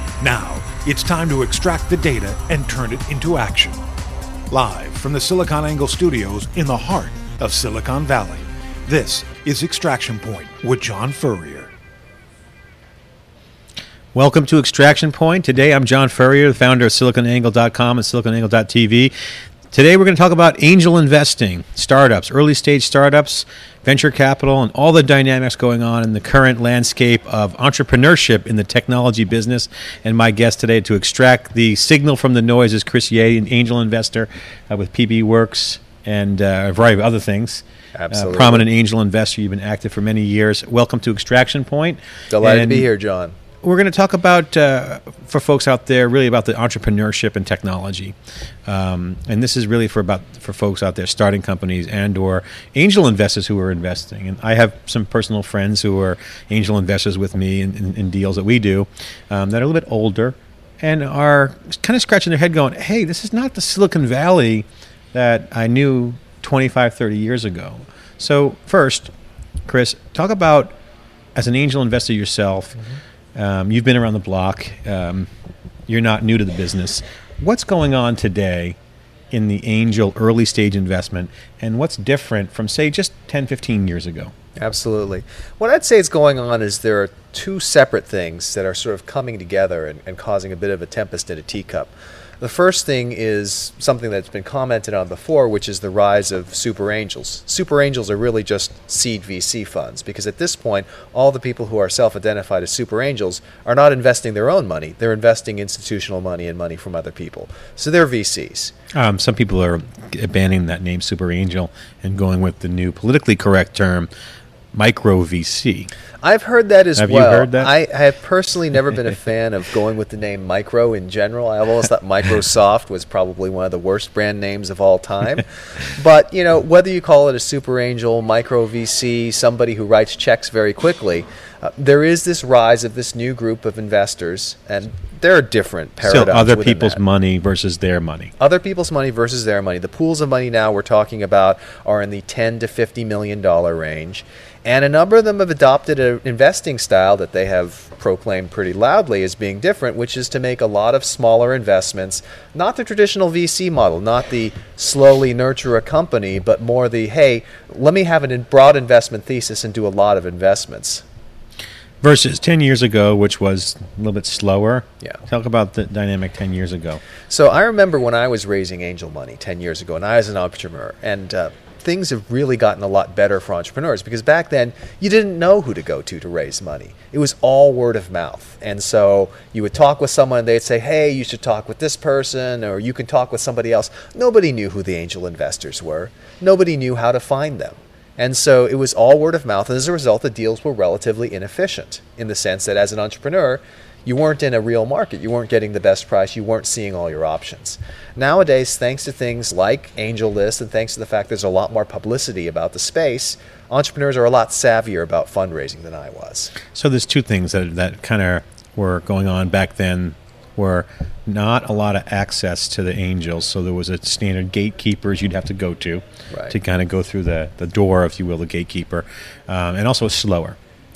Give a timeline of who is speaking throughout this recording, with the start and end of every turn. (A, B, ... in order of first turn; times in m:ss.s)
0:00.2-0:03.8 A
0:04.5-0:11.7 A
0:14.1-0:19.1 B
0:19.7-0:42.9 B
0:38.0-0:38.7 C
0:42.3-0:43.4 C
0:43.6-1:09.1 B
1:09.7-1:10.8 B
1:11.4-1:12.8 B
1:13.4-1:15.3 B
1:15.9-1:18.8 B
1:19.3-1:24.3 B
1:24.6-1:48.7 C
1:48.9-1:54.1 B
1:54.7-1:55.9 B
1:56.2-2:17.0 C
1:57.0-1:57.7 B
2:16.0-2:18.3 B
2:18.4-2:41.0 C
2:42.0-2:47.0 B
2:47.3-3:26.6 C
3:26.7-3:40.6 B